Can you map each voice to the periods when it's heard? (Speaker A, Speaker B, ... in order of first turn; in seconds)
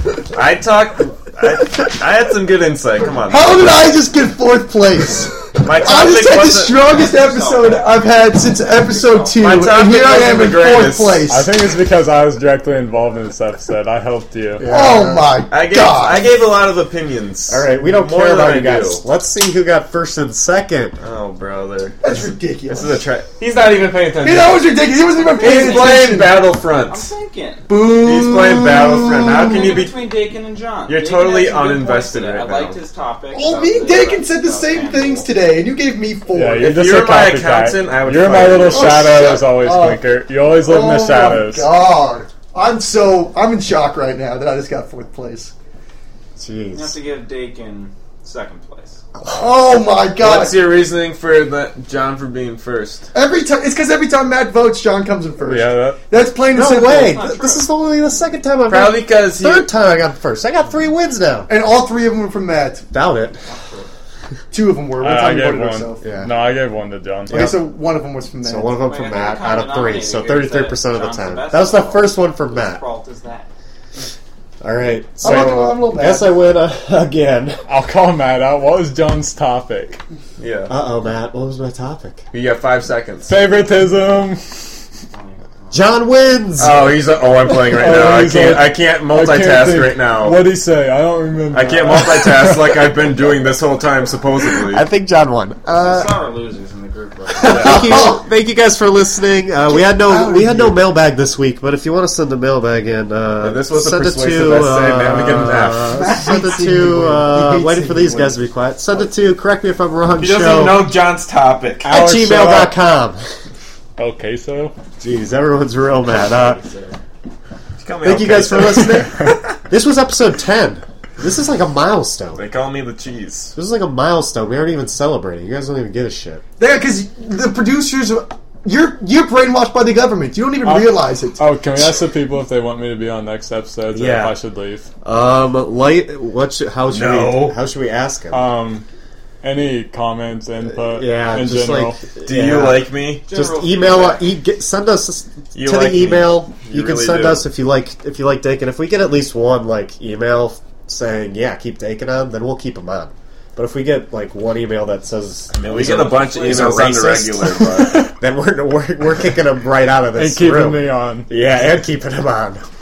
Speaker A: 0.3-3.6, 5.6-6.8, 9.4-11.4, 15.5-19.0, 21.0-22.1, 22.6-24.7, 25.3-27.1, 27.9-29.9, 30.9-32.8, 36.6-39.3, 50.2-53.1, 58.7-59.7, 80.4-80.7, 82.3-83.3, 86.6-90.4, 91.5-94.8, 103.4-106.0, 110.2-111.9, 117.8-119.3, 122.3-123.5, 136.9-137.6, 142.2-143.2, 145.5-147.4, 155.5-158.1
Speaker B: 3.3-11.5, 14.7-16.4, 22.0-23.1, 24.2-26.4, 27.7-29.6, 33.3-36.7, 38.7-40.0, 40.6-45.5, 49.3-50.7, 53.1-57.6, 61.5-62.9, 64.5-66.1, 67.3-68.8, 75.2-76.4, 97.5-98.2, 99.7-100.8, 105.9-108.4, 118.0-119.1, 126.6-131.4
Speaker C: 6.7-9.8, 25.2-26.1, 26.8-27.7, 29.3-35.3, 46.7-49.0, 56.9-57.8, 63.4-63.9, 68.8-73.5, 85.1-85.9, 95.7-98.1, 116.6-116.9, 143.2-144.3, 155.8-156.8
Speaker D: 11.3-14.7, 36.3-41.7, 55.4-56.0, 65.0-67.4, 77.7-80.0, 83.3-84.8, 87.7-92.6, 111.8-112.8, 114.0-114.7, 130.6-134.9, 138.3-138.9, 139.4-142.0, 160.1-161.3
Speaker E: 14.6-15.4, 17.5-21.0, 46.4-47.0, 49.2-49.5, 56.5-61.5, 62.9-63.5, 66.0-66.3, 67.3-67.7, 68.4-72.8, 74.6-77.6, 80.7-82.2, 85.7-86.9, 94.5-96.2, 97.4-110.9, 111.8-113.2, 115.0-116.6, 118.1-122.5, 123.5-126.4, 133.9-134.3, 135.0-138.4, 140.8-162.6